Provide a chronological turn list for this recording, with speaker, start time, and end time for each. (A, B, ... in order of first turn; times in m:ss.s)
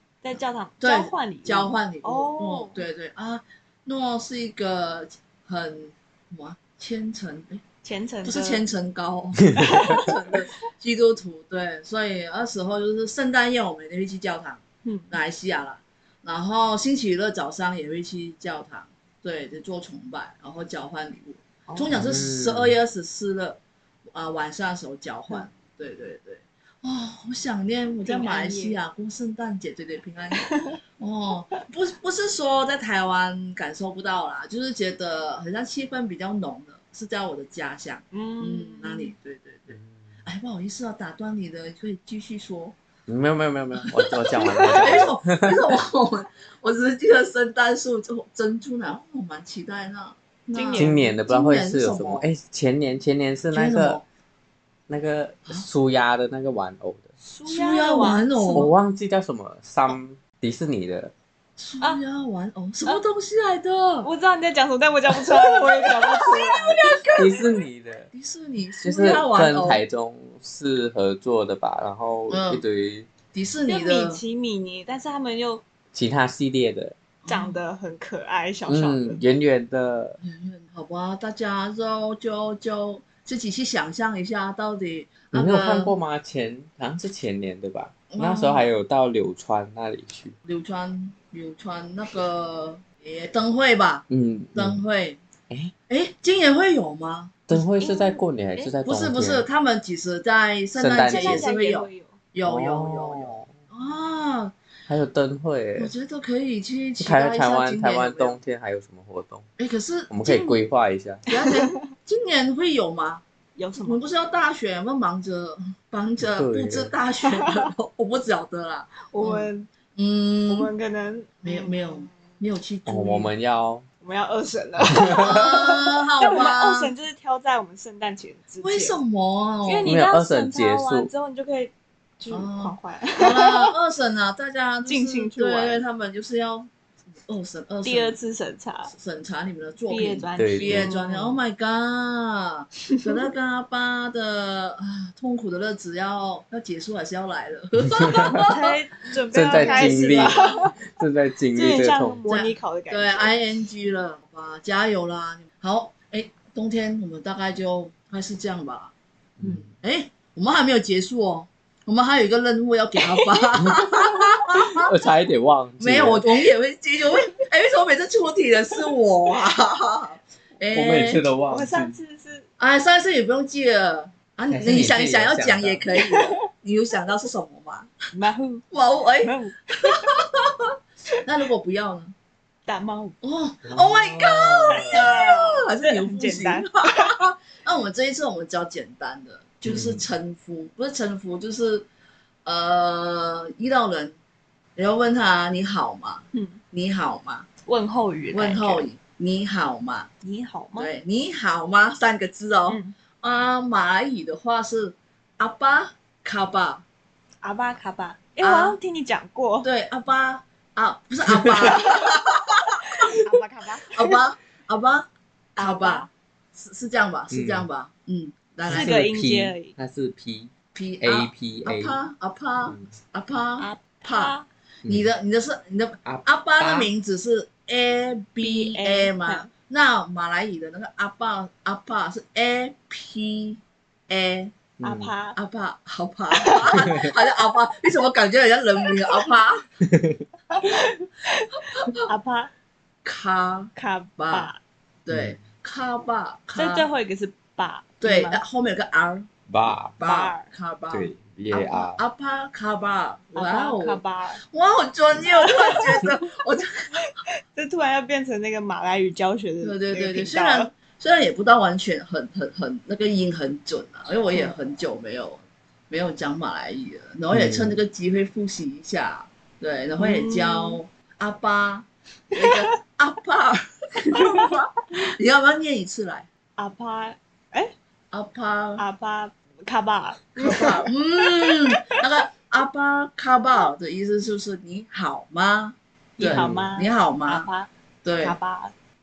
0:00.2-0:02.8 A
0:00.8-0:07.6 B
0:07.8-0:08.6 A
0:08.2-0:42.8 B
0:09.4-0:09.8 C
0:09.6-0:10.4 A
0:14.8-0:15.2 A
0:21.7-0:22.8 C
0:28.0-0:28.8 A
0:30.3-0:30.8 A
0:38.1-0:39.1 A
0:43.1-0:45.8 C
0:43.8-0:52.2 B
0:44.6-0:45.0 A
0:50.5-0:51.1 A
0:50.8-0:54.0 C
0:53.5-0:54.0 B
0:54.9-0:57.1 C
0:57.2-0:58.7 A
0:57.4-0:58.7 B
0:58.5-1:01.1 C
1:01.6-1:04.1 B
1:04.0-1:07.2 A
1:05.1-1:07.6 B
1:07.2-1:08.1 C
1:08.1-1:09.8 B
1:08.8-1:13.1 C
1:12.3-1:12.6 B
1:13.3-1:14.2 B
1:13.7-1:15.6 A
1:15.9-1:17.0 C
1:17.2-1:17.6 B
1:17.3-1:19.2 A
1:18.7-1:20.2 C
1:20.2-1:26.0 B
1:25.3-1:30.3 C
1:28.1-1:28.7 B
1:30.4-1:35.2 B
1:34.1-1:34.8 C
1:35.9-1:37.6 B
1:37.5-1:39.4 C
1:37.8-1:38.8 A
1:38.8-1:44.5 B
1:40.8-1:41.4 C
1:41.0-1:42.2 A
1:42.4-1:43.5 C
1:44.9-1:45.9 C
1:45.8-1:48.4 B
1:47.0-1:49.5 C
1:49.6-1:50.1 B
1:50.1-1:51.2 C
1:50.2-1:50.6 A
1:51.3-1:53.2 B
1:51.3-1:51.8 A
1:53.6-1:54.0 A
1:53.8-2:00.7 B
1:56.2-1:56.9 C
1:57.2-1:57.7 A
1:59.0-1:59.7 A
2:00.5-2:02.2 A
2:01.4-2:03.3 B
2:02.8-2:03.8 C
2:04.0-2:09.0 A
2:04.8-2:05.4 C
2:05.1-2:06.9 B
2:08.6-2:09.9 B
2:09.6-2:13.7 A
2:09.8-2:11.1 C
2:12.3-2:16.7 B
2:14.8-2:15.8 A
2:17.2-2:18.1 B
2:17.8-2:18.9 A
2:18.9-2:30.5 B
2:19.9-2:21.4 A
2:20.4-2:20.9 C
2:22.9-2:23.2 A
2:28.4-2:30.7 A
2:29.3-2:32.2 C
2:31.5-2:33.4 A
2:32.3-2:44.9 B
2:39.4-2:39.7 C
2:43.0-2:43.2 A
2:43.6-2:46.4 C
2:45.8-2:51.2 B
2:50.7-2:51.9 C
2:51.5-2:52.5 A
2:52.6-2:57.9 B
2:54.5-2:55.8 C
2:56.0-2:56.4 A
2:58.1-2:58.6 A
2:58.7-2:59.3 B
2:59.2-3:00.2 A
2:59.9-3:00.7 B
3:01.2-3:02.1 B
3:02.6-3:03.2 A
3:03.2-3:11.9 B
3:03.6-3:05.0 C
3:04.7-3:07.2 A
3:09.6-3:10.0 C
3:12.4-3:14.2 B
3:14.8-3:17.5 B
3:16.3-3:16.6 A
3:17.6-3:18.8 A
3:18.3-3:20.1 B
3:20.2-3:20.9 A
3:20.8-3:26.8 B
3:22.7-3:22.9 A
3:27.4-3:29.7 A
3:28.4-3:28.8 B
3:29.6-3:33.4 B
3:31.7-3:32.0 A
3:33.2-3:34.2 A
3:33.9-3:38.9 B
3:35.6-3:36.1 A
3:37.3-3:37.7 C
3:38.6-3:42.0 C
3:38.7-3:39.7 A
3:40.7-3:54.5 B
3:42.6-3:42.9 C
3:43.6-3:44.5 A
3:46.0-3:46.9 C
3:48.4-3:49.5 A
3:54.8-3:55.1 C
3:54.8-3:55.4 A
3:55.3-3:59.6 B
3:56.3-3:57.1 A
3:56.7-3:57.0 C
3:58.9-3:59.2 A
3:59.8-4:00.2 C
4:00.5-4:02.5 A
4:01.7-4:02.0 B
4:03.0-4:04.5 B
4:03.8-4:04.6 A
4:05.0-4:06.9 B
4:05.1-4:05.4 C
4:06.5-4:08.4 A
4:08.0-4:09.3 B
4:09.5-4:10.0 C
4:10.0-4:17.1 B
4:10.0-4:10.5 A
4:10.9-4:12.0 C
4:13.3-4:14.4 A
4:15.2-4:16.0 A
4:17.0-4:20.7 A
4:19.6-4:36.3 B
4:27.3-4:27.8 C
4:30.0-4:30.8 A
4:32.3-4:32.7 A
4:34.1-4:34.6 A
4:36.6-4:37.7 A
4:38.1-4:38.8 B
4:38.8-4:42.0 A
4:40.4-4:47.5 B
4:46.2-4:47.7 A
4:46.2-4:46.7 C
4:48.0-4:48.4 B
4:48.2-4:48.7 A